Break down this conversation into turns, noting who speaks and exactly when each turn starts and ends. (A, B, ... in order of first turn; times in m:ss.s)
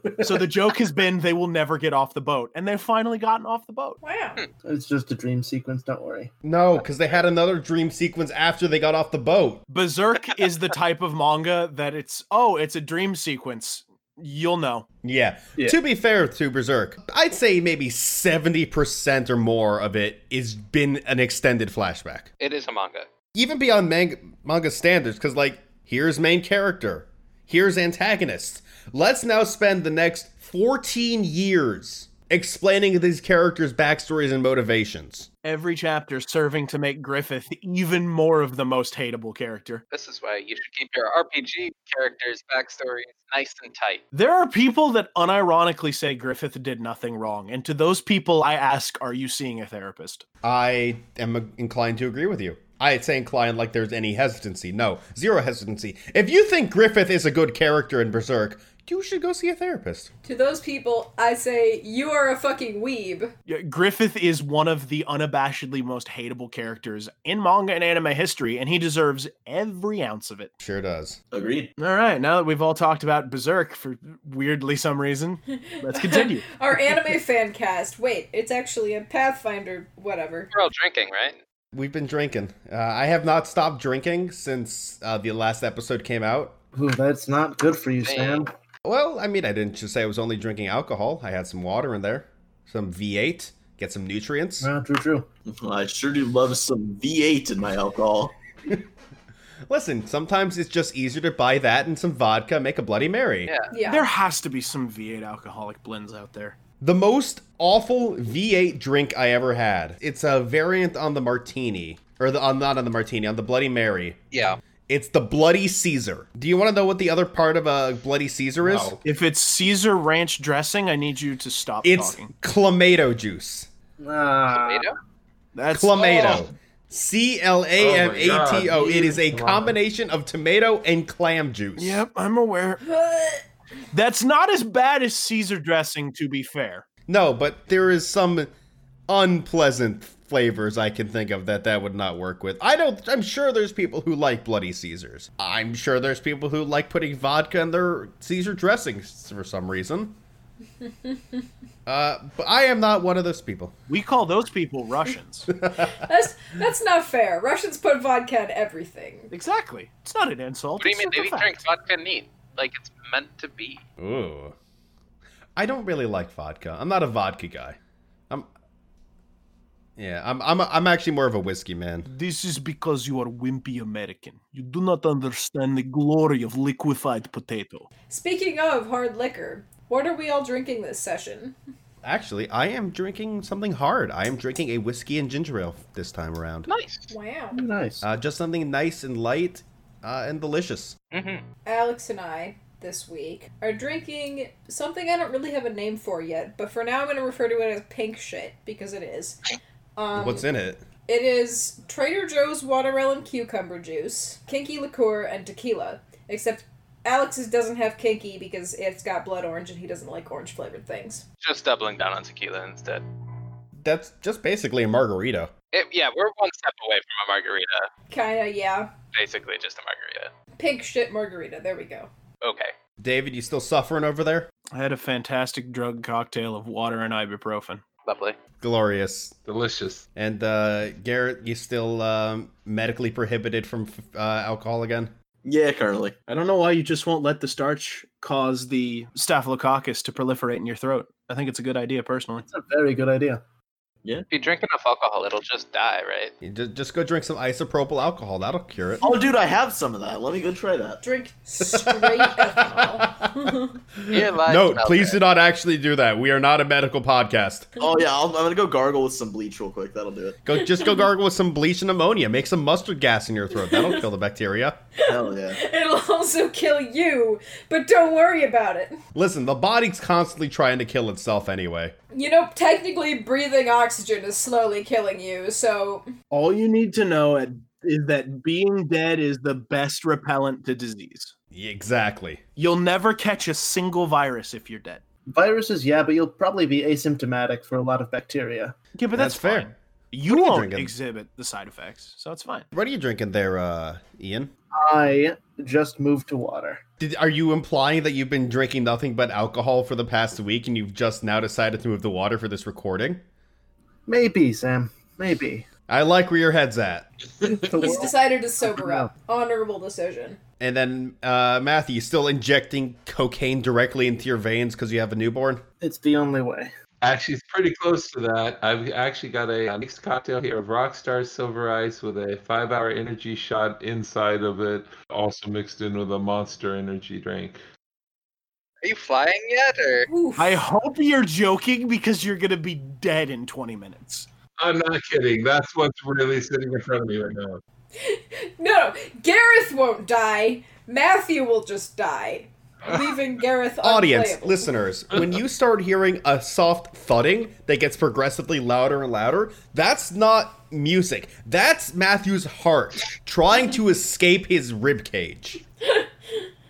0:00.2-0:04.0 A
0:04.0-0:04.4 B
0:04.6-0:06.3 C
0:06.4-0:09.6 D
0:09.7-0:14.8 A
0:15.0-0:22.3 D
0:22.4-0:23.1 E
0:23.3-0:35.3 D
0:35.4-0:39.8 A
0:39.9-0:44.0 E
0:44.1-0:50.2 A
0:50.4-1:00.1 D
1:00.2-1:03.3 B
1:03.4-1:10.5 A
1:10.6-1:11.2 D
1:11.3-1:11.7 F
1:11.8-1:16.6 A
1:15.5-1:20.5 B
1:20.5-1:21.4 E
1:21.7-1:26.6 D
1:26.7-1:28.5 C
1:28.0-1:28.5 E
1:28.8-1:34.7 D
1:34.6-1:35.2 C
1:35.5-1:38.3 F
1:39.7-1:43.5 D
1:43.7-1:44.1 B
1:43.8-1:46.6 A
1:46.8-1:54.2 D
1:54.3-1:54.6 E
1:54.9-1:59.0 D
1:58.6-1:59.0 G
1:59.0-2:02.3 A
2:01.8-2:03.7 D
2:04.0-2:04.9 C
2:04.5-2:04.9 E
2:05.5-2:06.4 A
2:05.7-2:12.0 D
2:06.1-2:06.4 G
2:07.8-2:09.7 G
2:11.8-2:12.8 A
2:12.8-2:13.4 B
2:13.9-2:16.8 A
2:17.1-2:18.5 D
2:19.1-2:30.2 D
2:31.0-2:31.4 B
2:31.8-2:33.7 D
2:33.9-2:35.5 A
2:35.5-2:36.0 D
2:35.8-2:39.3 B
2:39.3-2:41.6 A
2:40.8-2:43.8 E
2:44.0-2:44.6 D
2:45.6-2:47.8 D
2:50.0-2:52.1 D
2:52.1-2:57.9 A
2:58.1-3:01.5 B
3:02.0-3:06.7 D
3:06.6-3:07.1 E
3:07.1-3:07.6 B
3:07.5-3:08.0 C
3:08.0-3:11.0 D
3:11.1-3:11.4 E
3:11.6-3:19.4 B
3:20.0-3:20.5 B
3:20.1-3:20.8 D
3:21.0-3:31.2 B
3:31.4-3:33.0 E
3:33.8-3:35.5 D
3:35.7-3:37.9 E
3:38.1-3:38.9 B
3:39.1-3:40.3 E
3:40.6-3:42.1 B
3:42.4-3:42.7 E
3:43.0-3:44.5 D
3:44.7-3:47.8 A
3:48.0-3:48.4 E
3:48.6-3:49.3 D
3:49.4-3:50.0 G
3:50.2-3:55.1 D
3:55.4-3:56.1 F
3:56.3-4:02.5 A
4:02.5-4:03.4 C
4:04.3-4:06.3 E
4:06.4-4:09.0 D
4:09.0-4:11.0 F
4:11.0-4:13.7 B
4:11.6-4:13.5 D
4:14.1-4:15.2 E
4:14.1-4:17.8 D
4:17.8-4:20.4 F
4:20.4-4:24.8 D
4:23.7-4:23.9 B
4:25.0-4:25.6 F
4:25.5-4:29.0 B
4:29.1-4:31.9 D
4:32.1-4:36.1 B
4:36.3-4:41.3 A
4:41.5-4:42.4 D
4:42.6-4:45.0 A
4:45.3-4:48.8 C
4:48.9-4:52.6 A
4:49.1-4:49.7 D
4:50.3-4:50.9 D
4:52.7-4:54.5 D
4:54.7-4:56.8 C
4:57.0-5:03.2 D
5:04.1-5:05.6 C
5:05.9-5:07.1 D
5:07.4-5:09.1 C
5:07.7-5:10.4 B
5:10.6-5:15.6 D
5:15.8-5:16.7 C
5:17.0-5:27.6 G
5:28.8-5:30.1 E
5:30.1-5:30.6 B
5:30.4-5:34.3 A
5:34.6-5:37.6 G
5:38.0-5:44.7 B
5:43.8-5:55.6 D
5:55.8-5:56.5 B